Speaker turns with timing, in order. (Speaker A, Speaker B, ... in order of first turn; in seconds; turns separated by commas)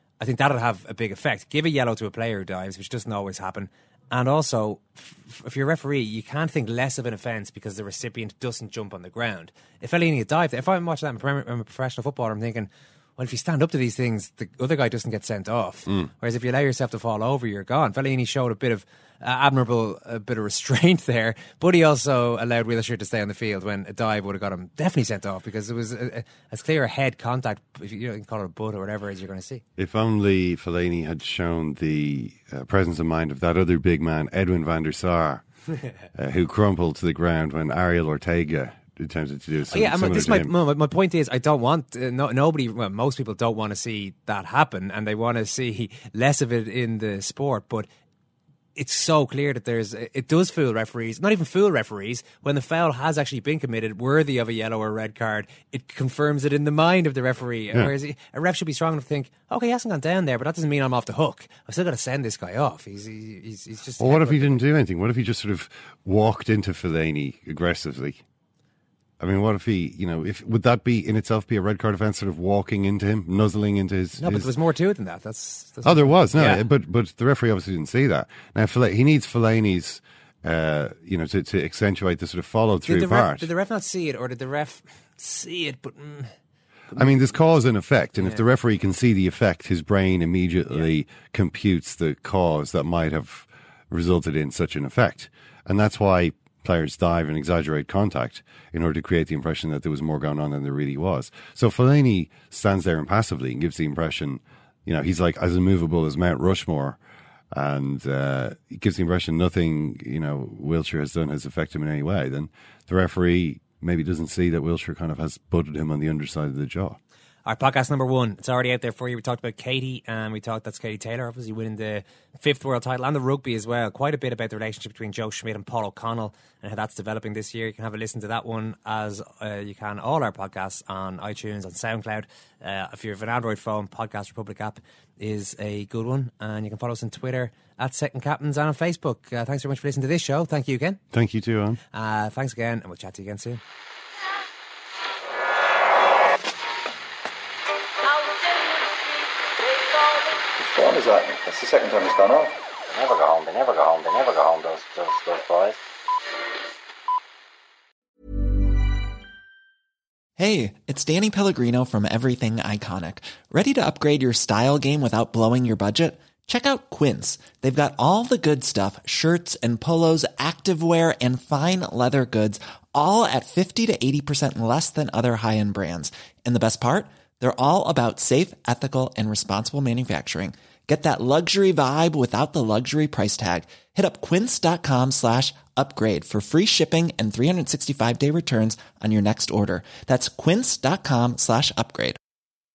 Speaker A: 0.2-29.6, Speaker B: 29.8-35.4, Speaker B: 36.1-40.5, Speaker A: 39.7-47.9, Speaker A: 48.8-64.6, Speaker B: 64.0-68.2, Speaker B: 69.2-74.5, Speaker A: 74.2-76.7, Speaker B: 75.8-83.5, Speaker A: 82.8-86.3, Speaker B: 86.9-107.0, Speaker B: 107.5-117.0, Speaker A: 117.5-141.0, Speaker B: 141.1-141.8, Speaker A: 141.9-143.6, Speaker C: 150.6-152.6, Speaker D: 152.8-155.8, Speaker E: 160.4-192.2